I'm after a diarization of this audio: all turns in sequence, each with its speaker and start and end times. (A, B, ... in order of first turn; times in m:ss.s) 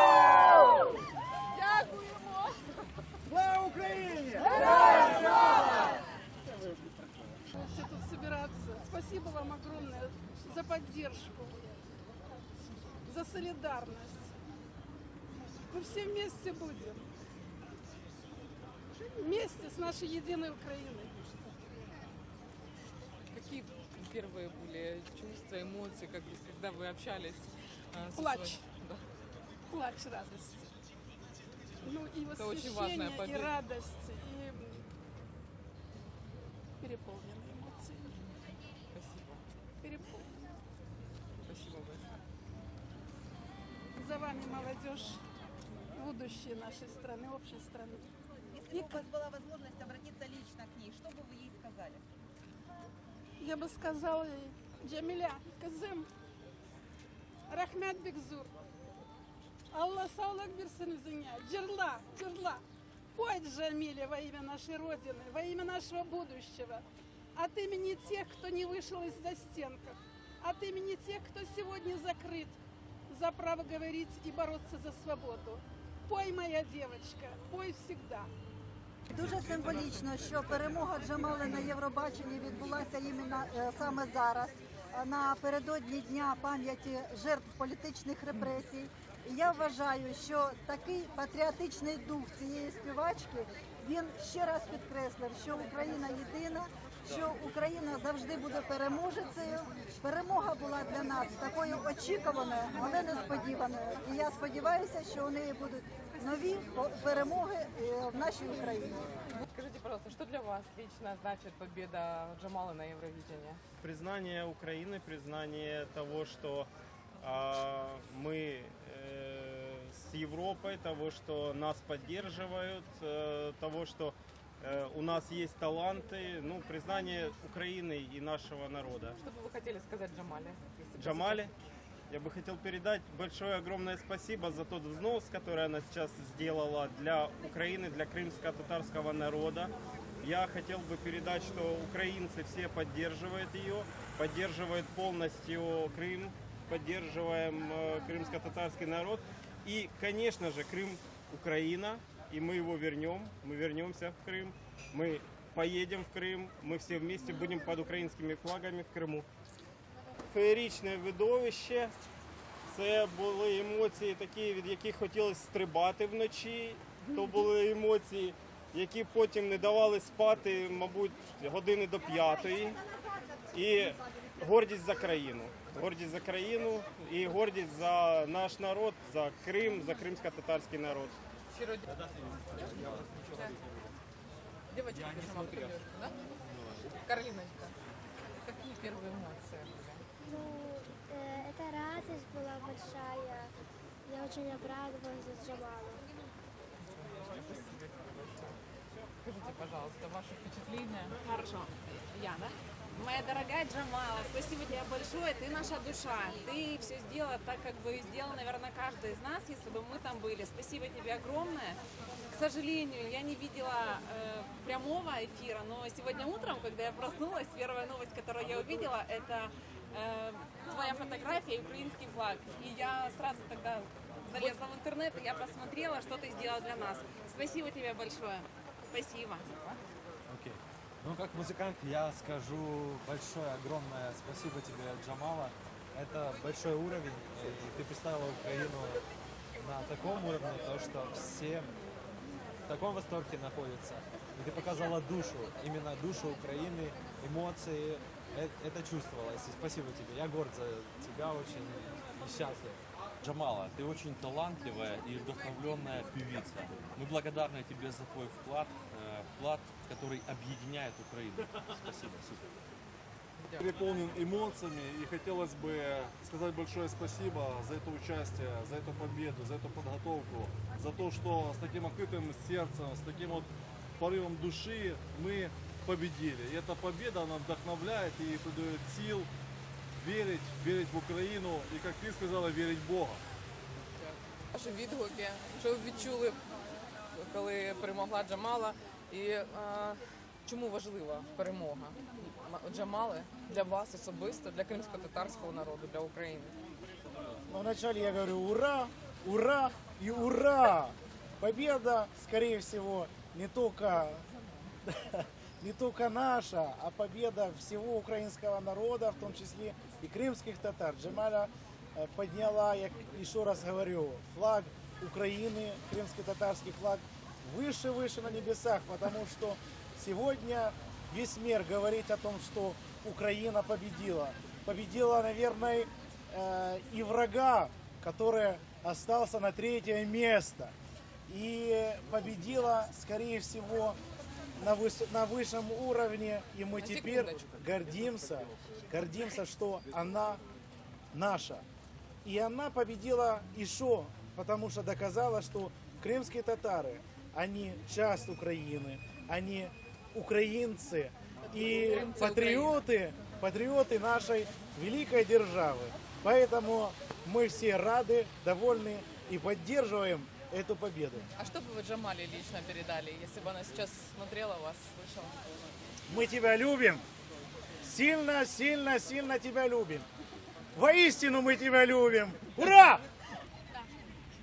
0:03.3-0:04.6 A
0:07.5-0:11.7 B
0:13.0-0:14.3 B
0:15.7-0:17.1 B
0:19.0-0:21.2 B
0:23.3-0:29.0 C
0:28.1-0:28.7 B
0:29.7-0:30.7 B
0:31.8-0:34.9 B
0:32.3-0:33.5 C
0:36.8-0:38.1 B
0:38.9-0:39.4 C
0:39.8-0:40.5 B
0:41.4-0:42.1 C
0:44.0-0:45.2 B
0:45.9-0:48.1 B
0:48.5-0:52.0 D
0:48.7-0:49.1 B
0:53.4-0:56.1 B
0:57.5-0:58.5 B
0:59.7-1:02.6 B
1:03.1-1:06.8 B
1:07.4-1:18.3 B
1:19.1-1:49.1 E
1:49.4-1:53.6 C
1:53.8-1:56.7 F
1:57.2-2:09.2 F
2:09.2-2:11.4 C
2:10.9-2:11.5 F
2:12.1-2:39.2 F
2:40.3-2:41.9 F
2:42.7-2:52.8 F
2:53.5-3:01.2 F
3:01.5-3:03.6 C
3:02.6-3:03.5 G
3:04.7-3:06.1 C
3:04.9-3:05.8 G
3:06.4-3:06.9 G
3:06.8-3:07.7 C
3:08.4-3:10.0 C
3:10.3-3:13.5 H
3:14.1-3:15.9 H
3:16.8-3:18.6 C
3:19.2-3:21.2 C
3:21.2-3:49.8 I
3:50.3-3:59.0 G
3:59.6-4:01.7 G
4:02.6-4:12.8 G
4:13.2-4:22.5 J
4:23.4-4:23.6 C
4:23.6-4:39.3 K
4:40.0-4:43.2 K
4:44.0-4:46.4 C
4:47.1-4:56.5 C
4:57.5-5:04.2 A
5:04.8-5:30.7 A
5:31.3-5:34.0 A
5:34.6-5:40.4 A
5:36.7-5:37.5 C
5:41.1-5:41.6 A
5:42.2-6:01.3 A
5:51.6-5:52.8 C
6:01.4-6:05.4 C
6:06.1-6:07.0 A
6:07.8-6:10.1 A
6:10.7-6:13.0 A